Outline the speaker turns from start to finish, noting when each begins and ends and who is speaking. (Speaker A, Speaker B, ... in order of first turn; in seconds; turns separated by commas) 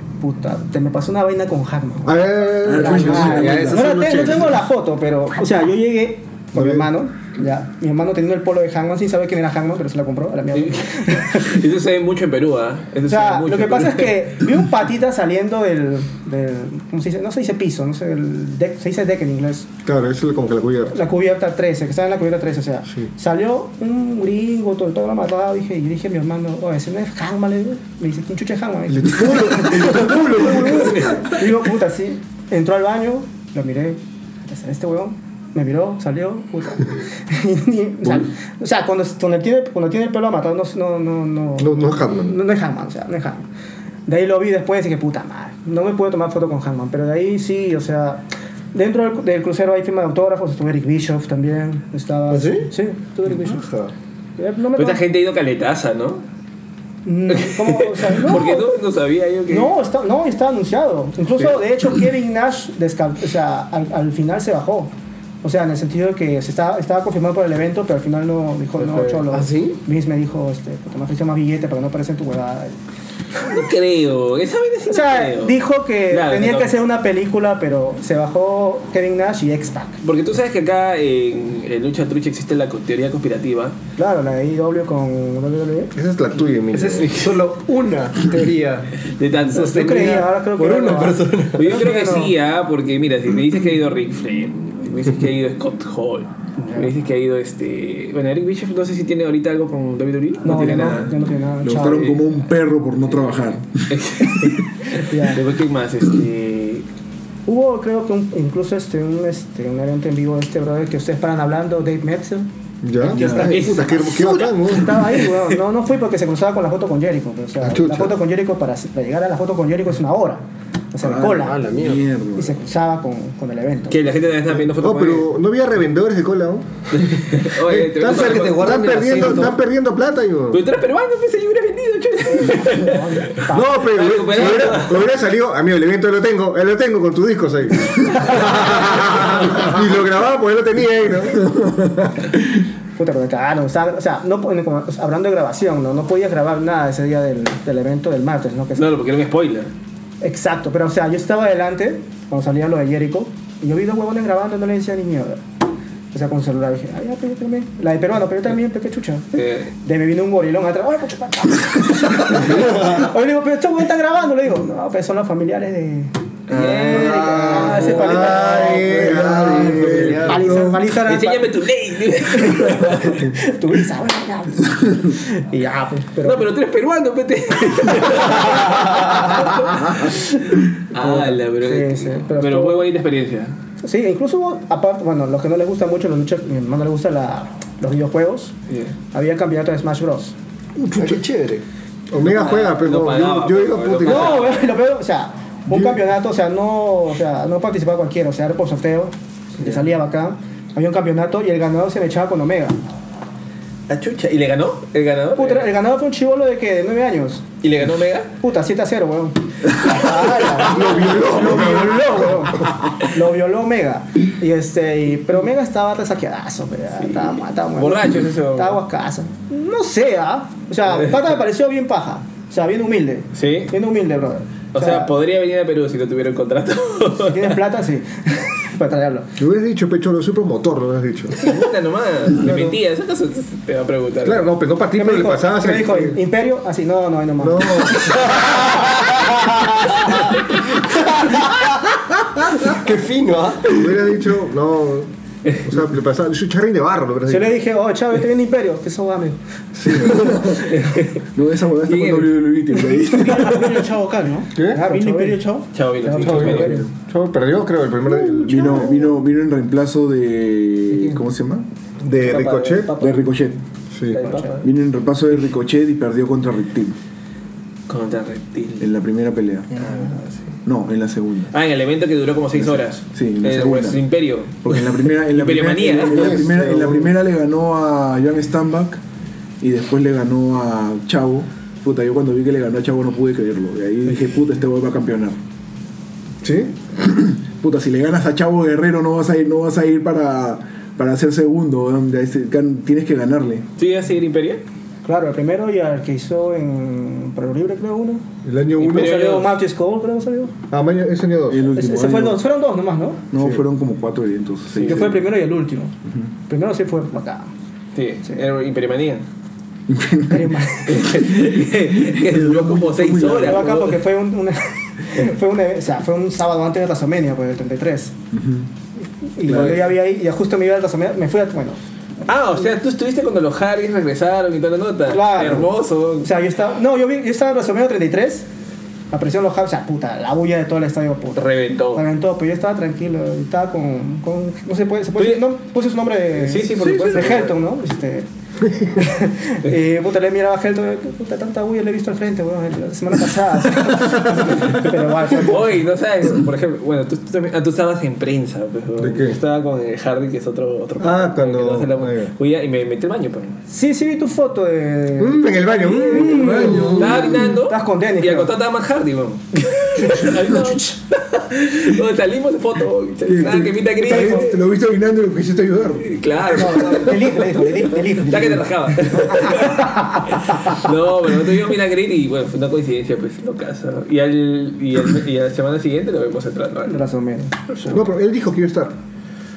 Speaker A: 0.2-11.6, Speaker B: 2.0-4.5, Speaker C: 2.6-3.9, Speaker D: 3.2-4.4, Speaker B: 6.5-6.9, Speaker E: 10.5-14.2, Speaker A: 13.1-19.7, Speaker B: 19.9-21.0, Speaker A: 20.9-43.5, Speaker B: 28.9-31.3, Speaker B: 41.6-42.4, Speaker A: 44.1-53.6, Speaker D: 52.3-52.7, Speaker D: 53.3-53.9, Speaker A: 54.4-55.0, Speaker E: 54.8-56.2, Speaker A: 57.0-58.7, Speaker E: 57.3-59.8, Speaker A: 59.5-72.8, Speaker D: 68.8-69.8, Speaker E: 73.4-75.6, Speaker A: 74.9-80.0, Speaker E: 76.1-76.7, Speaker E: 80.0-83.8, Speaker A: 84.0-85.9, Speaker B: 85.9-87.2, Speaker D: 86.7-91.7, Speaker E: 89.1-90.0, Speaker A: 89.7-92.3, Speaker E: 91.5-101.1, Speaker A: 96.6-96.9, Speaker A: 100.4-102.2, Speaker C: 101.6-103.9, Speaker E: 103.9-106.9, Speaker A: 105.0-105.4, Speaker A: 107.5-112.5, Speaker B: 112.8-115.0, Speaker A: 113.0-121.6, Speaker C: 113.1-113.5, Speaker E: 113.2-114.3, Speaker B: 117.6-118.2, Speaker C: 121.0-122.6, Speaker D: 121.3-122.0, Speaker A: 122.3-124.0, Speaker E: 123.9-125.3, Speaker B: 124.5-126.7, Speaker E: 126.9-128.7, Speaker B: 127.5-130.6, Speaker D: 128.1-129.6, Speaker E: 130.5-133.3, Speaker A: 132.4-133.9, Speaker B: 133.5-141.5, Speaker E: 133.8-135.1, Speaker A: 138.1-138.8, Speaker A: 143.0-148.9, Speaker E: 148.8-149.7, Speaker A: 150.2-155.4, Speaker A: 156.1-166.1, Speaker E: 159.4-159.7, Speaker E: 166.5-168.9, Speaker D: 166.6-170.5, Speaker A: 166.7-168.7, Speaker B: 166.9-170.4, Speaker C: 169.6-170.7, Speaker A: 170.2-171.5, Speaker E: 171.0-173.3, Speaker A: 172.3-176.5, Speaker E: 176.2-183.6, Speaker A: 178.3-178.5, Speaker A: 180.9-182.9, Speaker A: 183.8-188.5, Speaker E: 188.7-188.9, Speaker A: 189.1-190.3, Speaker B: 190.8-191.2, Speaker D: 190.9-191.6, Speaker B: 192.1-194.5, Speaker E: 192.2-194.7, Speaker A: 194.0-202.8, Speaker E: 203.9-205.7, Speaker A: 205.4-207.5, Speaker E: 207.6-208.3, Speaker A: 208.4-225.1, Speaker B: 210.5-212.6, Speaker E: 217.0-218.8, Speaker E: 223.3-223.7, Speaker E: 224.7-227.6, Speaker A: 227.2-229.3, Speaker B: 229.4-231.5, Speaker E: 231.4-234.5, Speaker B: 232.4-232.8, Speaker B: 234.2-236.2, Speaker A: 234.9-240.4, Speaker B: 237.4-238.8, Speaker D: 241.3-241.7, Speaker D: 242.4-243.9, Speaker B: 243.7-247.6, Speaker A: 247.3-249.4, Speaker B: 249.8-250.4, Speaker C: 249.9-253.8, Speaker E: 250.5-251.2, Speaker E: 251.8-252.4, Speaker A: 253.2-253.8, Speaker F: 253.2-255.7, Speaker B: 254.6-254.8, Speaker A: 254.7-256.9, Speaker E: 255.7-256.8, Speaker B: 256.2-259.1, Speaker C: 256.3-256.8, Speaker C: 258.3-261.7, Speaker A: 258.5-259.0, Speaker A: 260.9-261.2, Speaker B: 262.0-262.9, Speaker E: 262.2-263.2, Speaker C: 263.0-263.6, Speaker B: 263.9-264.2, Speaker A: 264.1-264.7, Speaker E: 264.1-264.5, Speaker C: 264.6-267.0, Speaker E: 267.9-268.9, Speaker C: 268.8-269.8, Speaker A: 269.7-270.2, Speaker E: 269.8-270.4, Speaker C: 270.6-271.5, Speaker E: 271.5-276.4, Speaker C: 272.6-274.0, Speaker C: 274.6-279.0, Speaker B: 276.1-277.1, Speaker C: 279.6-285.4, Speaker B: 286.4-286.8, Speaker C: 287.0-293.7, Speaker E: 293.8-294.6, Speaker A: 295.1-298.2, Speaker B: 298.4-299.2, Speaker E: 298.8-299.6, Speaker A: 298.8-300.5, Speaker B: 300.7-301.7, Speaker C: 301.5-302.4, Speaker A: 301.7-303.2, Speaker C: 303.3-305.2, Speaker B: 303.4-303.6, Speaker E: 304.8-305.0, Speaker A: 304.8-305.9, Speaker A: 306.5-307.5, Speaker E: 307.9-309.2, Speaker C: 309.9-310.5, Speaker A: 310.2-311.1, Speaker E: 310.9-314.0, Speaker C: 312.0-313.6, Speaker A: 313.4-318.1, Speaker C: 318.3-318.7, Speaker A: 319.4-321.8, Speaker C: 319.5-319.9, Speaker E: 322.3-326.3, Speaker A: 325.1-325.7, Speaker A: 326.2-328.5, Speaker A: 329.1-345.8, Speaker E: 331.4-332.0, Speaker E: 335.2-335.4, Speaker E: 336.3-337.5, Speaker C: 336.8-337.2, Speaker E: 345.3-353.6, Speaker B: 349.0-349.4, Speaker B: 351.0-352.3, Speaker A: 353.7-358.5, Speaker B: 355.2-357.3, Speaker C: 356.1-357.5, Speaker E: 356.8-364.6, Speaker A: 359.5-360.8, Speaker C: 363.3-366.7, Speaker A: 364.0-364.5, Speaker E: 366.0-377.0, Speaker A: 366.6-370.9, Speaker A: 376.9-378.0, Speaker B: 377.9-379.0